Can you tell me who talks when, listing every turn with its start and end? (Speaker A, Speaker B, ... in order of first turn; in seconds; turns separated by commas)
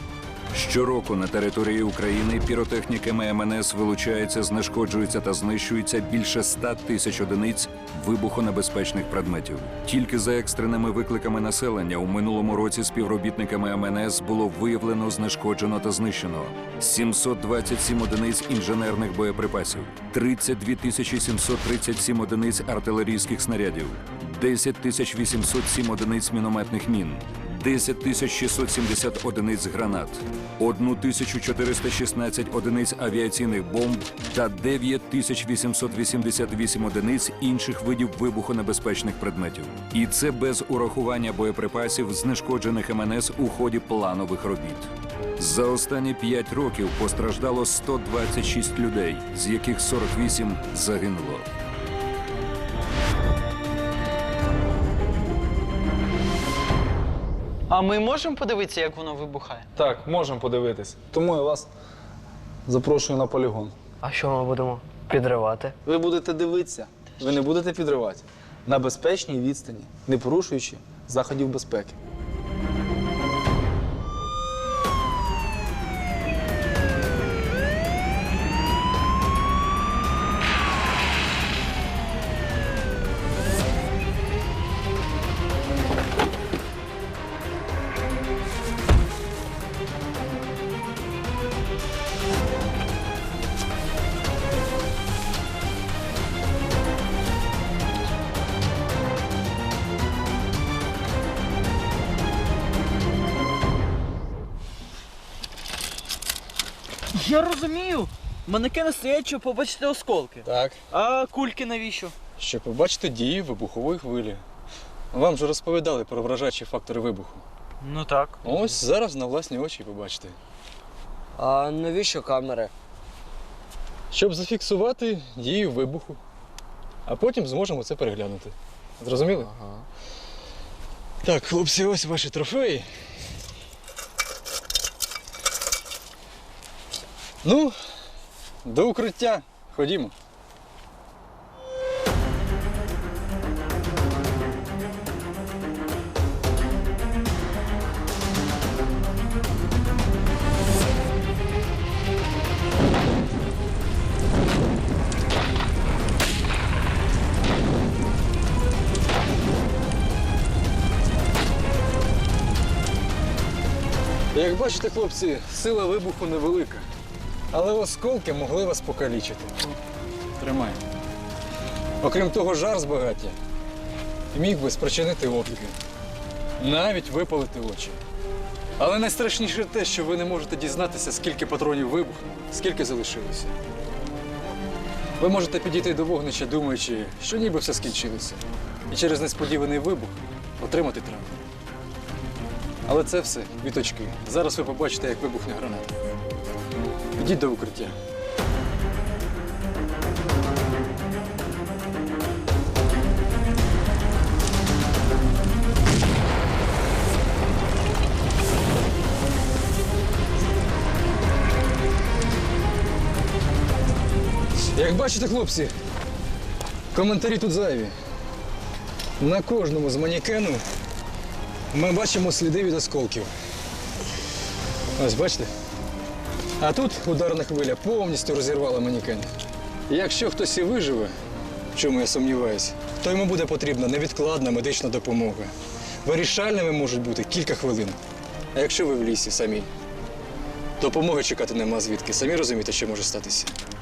Speaker A: 0.5-51.5, Speaker B: 57.7-59.7, Speaker C: 59.8-61.7, Speaker C: 62.7-63.8, Speaker D: 64.0-65.8, Speaker C: 65.8-72.0, Speaker B: 107.1-112.2, Speaker E: 110.4-110.8, Speaker E: 112.4-114.4, Speaker E: 115.1-117.4, Speaker B: 117.8-118.5, Speaker E: 118.4-120.4, Speaker D: 121.4-122.7, Speaker E: 124.1-126.2, Speaker E: 127.1-129.5, Speaker D: 129.4-129.8, Speaker E: 131.2-132.9, Speaker E: 137.4-137.8, Speaker E: 138.6-140.1, Speaker E: 164.3-166.9, Speaker E: 167.5-169.7, Speaker E: 170.4-170.8, Speaker E: 172.0-173.4, Speaker E: 174.3-175.8, Speaker E: 176.6-178.0, Speaker E: 178.8-183.6, Speaker E: 185.2-191.4, Speaker E: 192.9-195.9, Speaker E: 197.2-198.0, Speaker E: 214.7-215.8, Speaker E: 216.9-217.9, Speaker E: 219.2-220.6, Speaker E: 221.7-223.3, Speaker E: 225.0-225.5, Speaker E: 226.6-229.3, Speaker E: 229.9-231.2, Speaker E: 231.8-235.5, Speaker E: 236.0-238.0, Speaker E: 238.6-239.7, Speaker E: 240.8-243.6